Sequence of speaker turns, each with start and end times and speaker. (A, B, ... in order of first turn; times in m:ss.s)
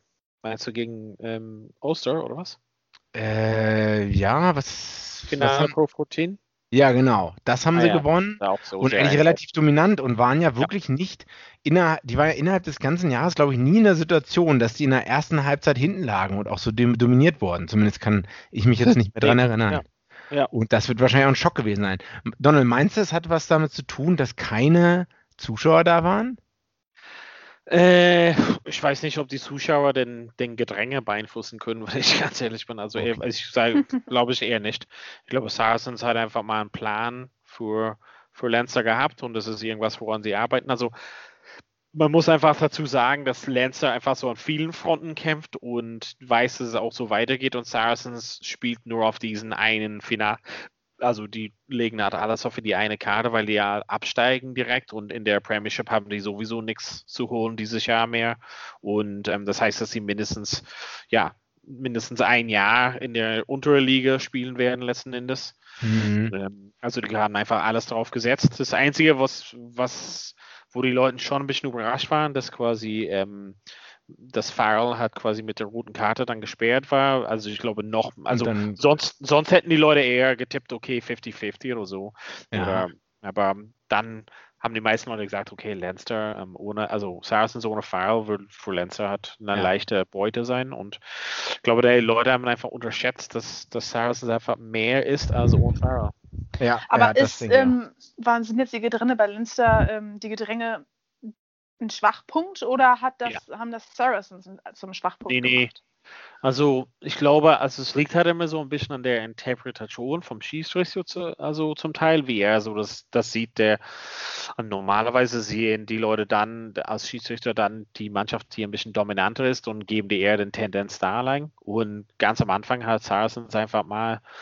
0:00.4-0:02.6 A
0:03.1-0:05.7 B
0:05.3-0:06.4 A
0:06.7-0:19.8 B
0:07.7-0:09.4 A
0:19.2-0:20.5 A
0:20.5-0:26.4 B
0:27.7-0:40.9 A
0:41.9-0:50.4 A
0:51.0-1:05.6 A
1:05.8-1:06.3 B
1:06.3-1:13.6 A
1:14.1-1:36.1 A
1:18.3-1:18.8 B
1:22.5-1:22.9 B
1:36.6-1:37.7 B
1:36.9-1:40.8 C
1:41.8-1:45.8 C
1:45.2-1:45.7 A
1:46.4-2:04.2 A